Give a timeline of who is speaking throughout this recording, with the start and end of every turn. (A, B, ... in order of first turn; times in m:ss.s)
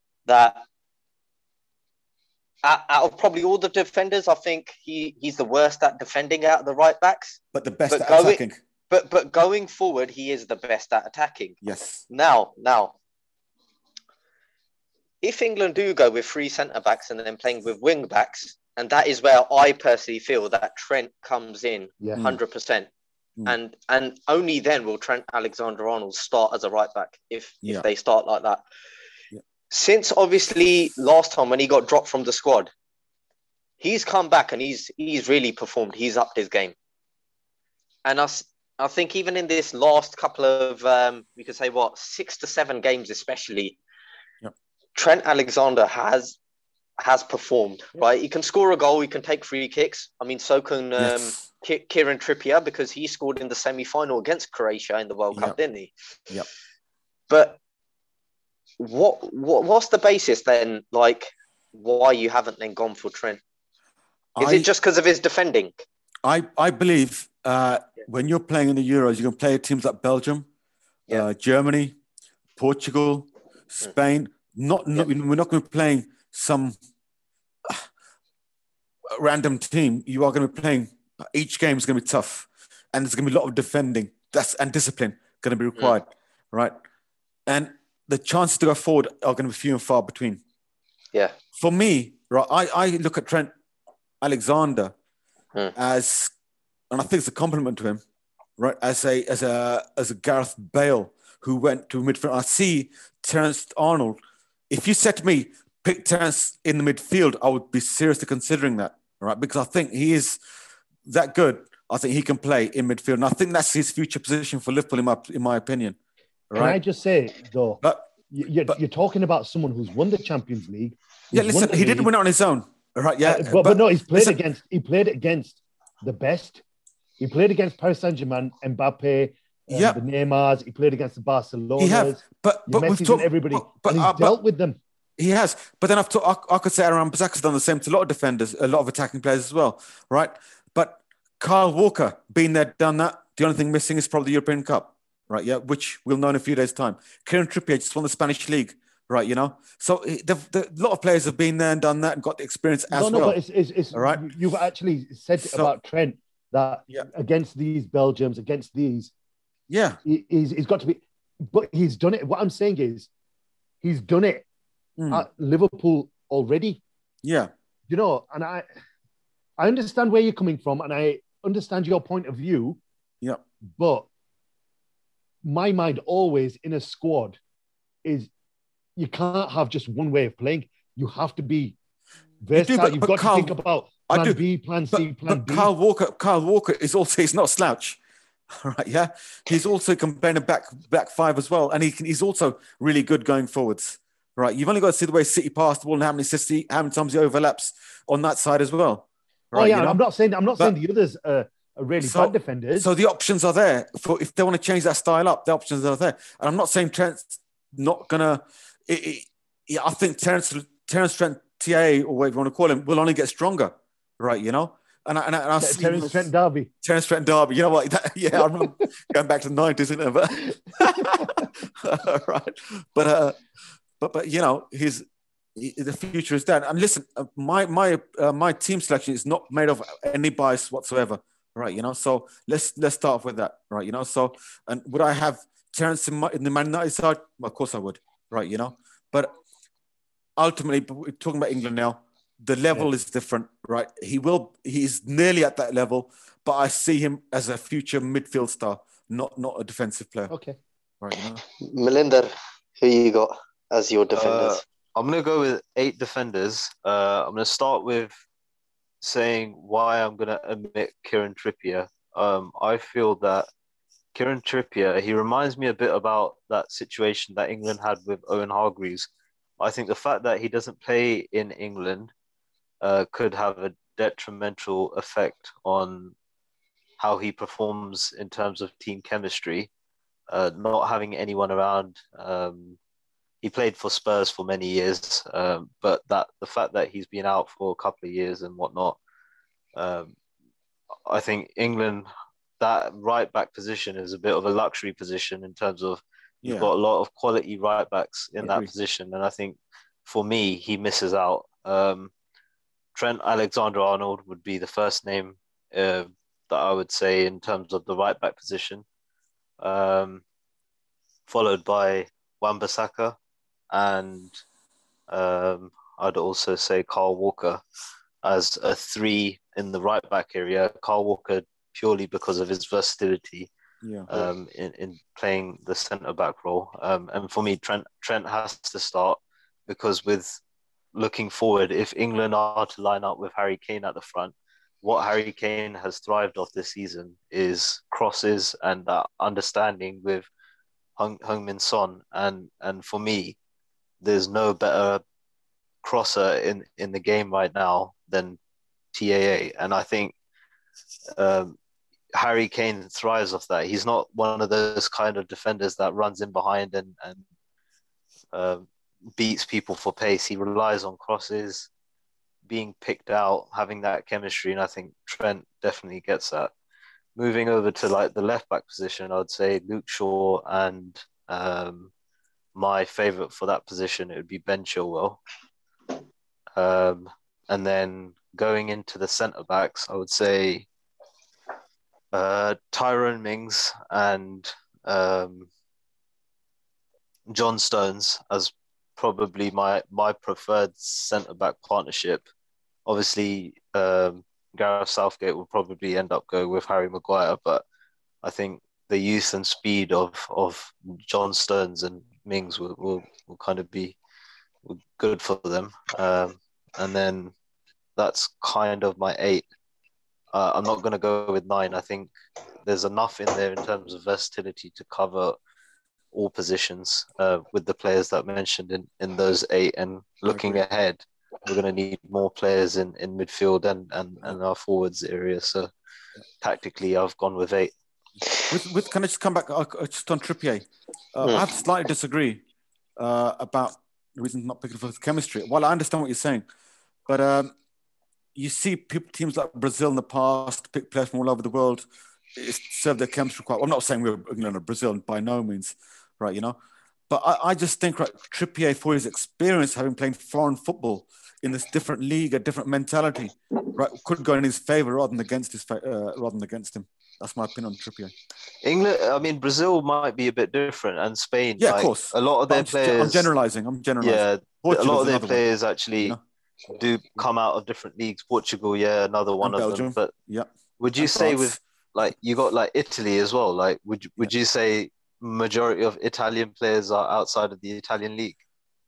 0:00.3-0:00.6 A
0:02.6-0:07.4 A
0:07.5-0:08.6 B
0:07.9-0:11.6 A
0:11.6-0:12.0 B
0:12.1-0:13.0 A
0:15.2-0:22.9 A
0:23.5-0:28.6 A
0:29.7-0:32.7 A
0:33.8-0:36.7 A
0:38.0-0:43.8 A
0:45.0-0:46.4 A
0:47.0-0:55.9 A
0:51.0-0:51.4 B
0:57.3-0:57.6 A
0:58.8-1:03.4 A
1:04.4-1:04.7 B
1:04.4-1:05.8 A
1:06.2-1:10.5 B
1:11.1-1:12.0 B
1:12.6-1:16.8 B
1:19.1-1:26.7 B
1:27.5-1:30.4 B
1:31.6-1:33.5 B
1:34.2-1:34.9 B
1:35.8-1:36.3 B
1:36.9-1:38.0 B
1:38.6-1:44.2 B
1:44.7-1:50.4 B
1:51.1-1:56.0 B
1:56.5-1:56.8 B
1:56.5-2:02.1 C
1:57.8-1:58.1 B
2:01.3-2:04.4 B
2:03.2-2:06.6 C
2:07.2-2:14.8 C
2:09.7-2:10.0 B
2:11.8-2:14.4 B
2:15.2-2:33.4 B
2:32.9-2:39.1 C
2:33.9-2:34.3 B
2:35.4-2:35.7 B
2:39.7-2:40.0 B
2:40.0-2:43.1 C
2:43.8-2:44.4 C
2:45.0-2:45.2 B
2:45.1-2:46.8 C
2:47.2-2:47.5 B
2:47.9-2:48.6 C
2:49.6-2:52.8 C
2:53.8-2:54.1 C
2:55.4-2:57.4 C
2:58.0-2:58.3 C
2:59.0-3:01.8 C
3:02.4-3:05.7 C
3:02.6-3:03.6 B
3:04.1-3:04.4 B
3:04.9-3:08.0 B
3:08.6-3:20.0 B
3:19.5-3:22.9 C
3:22.0-3:36.3 B
3:35.6-3:36.7 C
3:36.8-3:43.4 B
3:44.0-3:45.0 B
3:45.6-3:59.3 B
4:00.4-4:10.3 B
4:10.3-4:10.6 C
4:11.0-4:11.4 B
4:11.6-4:14.6 A
4:14.1-4:18.2 D
4:19.0-4:23.5 D
4:24.1-4:29.1 D
4:29.6-4:32.1 D
4:32.8-4:36.1 D
4:37.0-4:39.7 D
4:40.3-4:42.8 D
4:43.4-4:49.0 D
4:49.8-4:50.2 D
4:51.1-4:52.1 D
4:52.6-5:02.1 D
4:56.4-4:56.7 B
4:58.4-4:58.7 B
5:03.0-5:08.8 D
5:09.6-5:10.2 D
5:11.3-5:13.2 D
5:13.7-5:14.4 D
5:15.1-5:17.6 D
5:18.2-5:23.5 D
5:23.8-5:24.1 B
5:24.1-5:30.4 D
5:30.9-5:40.3 D
5:41.0-5:43.4 D
5:44.0-5:45.0 D
5:45.8-5:48.4 D
5:48.9-5:50.1 D
5:51.2-5:51.6 D
5:52.1-5:57.2 D
5:58.3-6:01.7 D
6:02.5-6:06.5 D
6:07.2-6:11.9 D
6:12.6-6:15.2 D
6:16.6-6:20.7 D
6:22.1-6:25.5 D
6:27.3-6:32.2 D
6:32.9-6:37.6 D
6:38.2-6:44.0 D
6:44.6-6:47.3 D
6:48.0-6:49.4 D
6:50.3-6:52.1 D
6:52.6-6:55.4 D
6:56.1-7:05.7 D
7:00.3-7:00.6 B
7:06.4-7:07.7 D
7:08.5-7:12.4 B
7:13.0-7:16.4 B
7:17.1-7:17.5 B
7:18.4-7:21.8 B
7:22.4-7:26.6 B
7:27.1-7:38.1 B
7:38.6-7:43.3 D
7:41.6-7:45.4 B
7:44.0-7:46.2 D
7:46.7-7:50.1 D
7:49.4-7:51.6 B
7:50.8-7:58.4 D